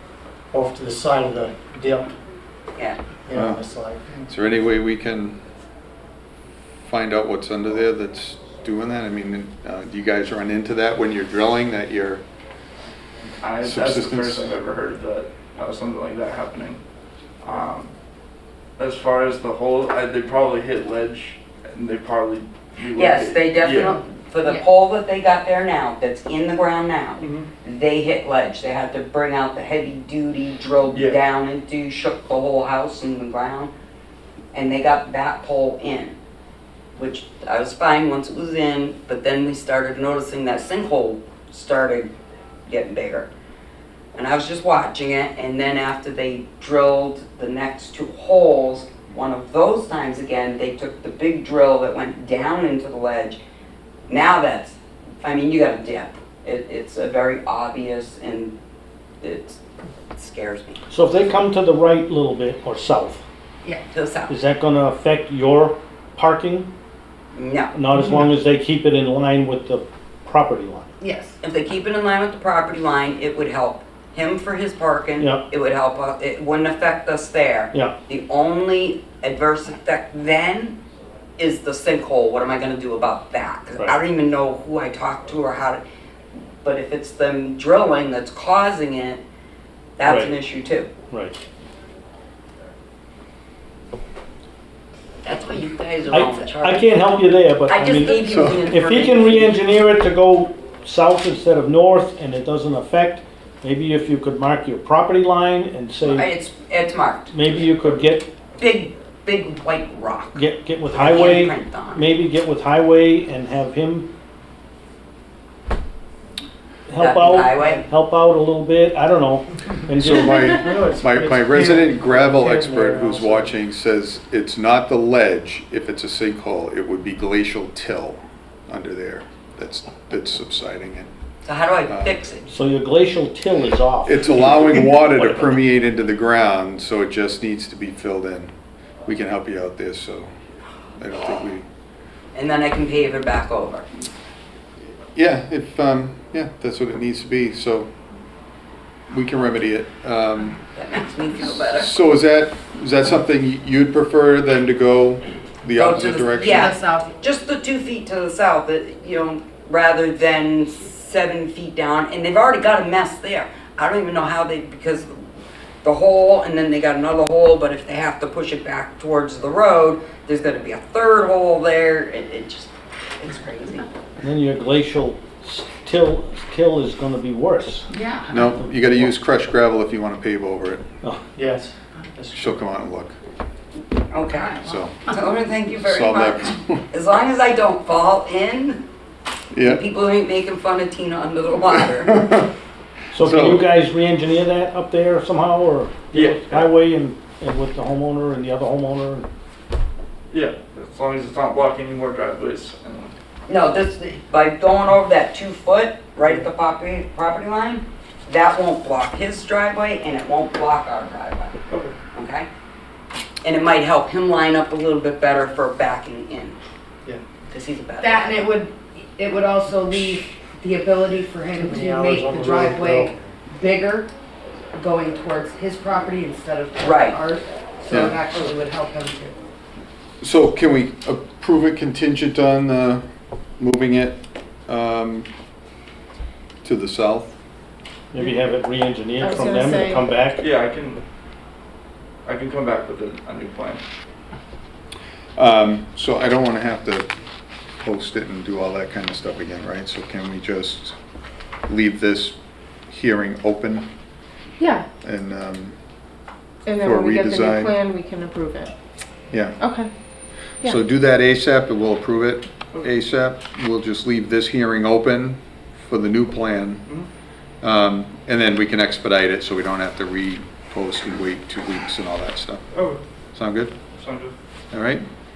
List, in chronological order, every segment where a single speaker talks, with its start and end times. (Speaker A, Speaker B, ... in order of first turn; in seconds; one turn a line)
Speaker A: 0.5-2.1
Speaker A: 3.2-4.2
Speaker B: 3.3-3.6
Speaker B: 4.2-5.4
Speaker B: 6.8-12.2
Speaker C: 13.4-16.8
Speaker B: 13.6-14.5
Speaker C: 17.4-17.9
Speaker C: 18.8-24.0
Speaker D: 22.9-33.7
Speaker C: 27.2-27.5
Speaker C: 30.9-31.2
Speaker D: 34.5-36.1
Speaker D: 37.0-42.1
Speaker D: 42.7-43.3
Speaker D: 44.1-53.4
Speaker D: 54.1-58.5
Speaker D: 59.2-59.6
Speaker D: 60.1-60.8
Speaker E: 60.9-63.2
Speaker D: 63.9-64.3
Speaker E: 64.3-66.7
Speaker D: 67.3-67.7
Speaker E: 67.7-70.9
Speaker F: 71.0-71.3
Speaker D: 71.4-80.8
Speaker D: 81.4-85.8
Speaker D: 86.6-89.2
Speaker D: 90.0-90.9
Speaker E: 90.0-90.3
Speaker E: 91.1-91.4
Speaker D: 95.2-97.0
Speaker E: 96.1-106.3
Speaker D: 97.7-99.6
Speaker B: 98.2-98.7
Speaker D: 106.0-107.3
Speaker E: 107.3-108.3
Speaker D: 108.6-112.1
Speaker E: 110.3-114.1
Speaker E: 116.9-120.3
Speaker D: 117.0-117.8
Speaker B: 120.0-131.1
Speaker A: 120.1-123.5
Speaker D: 131.4-132.4
Speaker B: 131.9-132.2
Speaker E: 132.5-135.6
Speaker B: 134.1-138.5
Speaker B: 139.1-140.3
Speaker B: 141.0-141.6
Speaker D: 142.3-143.8
Speaker B: 145.1-147.9
Speaker B: 149.1-150.6
Speaker D: 150.7-151.9
Speaker B: 151.7-156.8
Speaker D: 155.7-165.2
Speaker F: 156.4-157.1
Speaker D: 165.8-173.9
Speaker E: 174.2-177.9
Speaker F: 177.9-178.3
Speaker B: 178.3-180.8
Speaker A: 181.3-182.6
Speaker B: 182.3-183.2
Speaker D: 184.1-188.8
Speaker B: 184.6-185.0
Speaker B: 185.8-186.8
Speaker B: 189.5-189.8
Speaker D: 189.6-192.2
Speaker B: 191.8-192.5
Speaker E: 193.1-199.3
Speaker B: 193.2-193.7
Speaker C: 196.1-196.7
Speaker C: 200.3-203.1
Speaker D: 203.5-211.6
Speaker C: 211.7-211.9
Speaker D: 212.1-212.5
Speaker D: 213.4-216.6
Speaker D: 217.4-218.6
Speaker F: 218.0-224.1
Speaker A: 221.5-223.3
Speaker F: 224.7-229.3
Speaker D: 226.8-227.2
Speaker B: 227.9-228.2
Speaker B: 230.2-233.0
Speaker B: 233.6-235.3
Speaker B: 236.6-237.3
Speaker E: 238.1-240.4
Speaker G: 239.2-240.1
Speaker C: 240.4-241.0
Speaker C: 242.2-243.8
Speaker B: 245.3-247.1
Speaker B: 247.8-250.9
Speaker B: 251.7-252.3
Speaker B: 252.9-253.8
Speaker G: 254.6-254.8
Speaker B: 255.0-255.8
Speaker G: 256.6-258.7
Speaker B: 256.8-257.8
Speaker B: 259.3-259.6
Speaker G: 259.6-259.9
Speaker B: 260.6-266.9
Speaker B: 267.6-272.6
Speaker C: 272.7-273.0
Speaker B: 273.3-273.7
Speaker C: 273.9-274.3
Speaker B: 274.7-275.1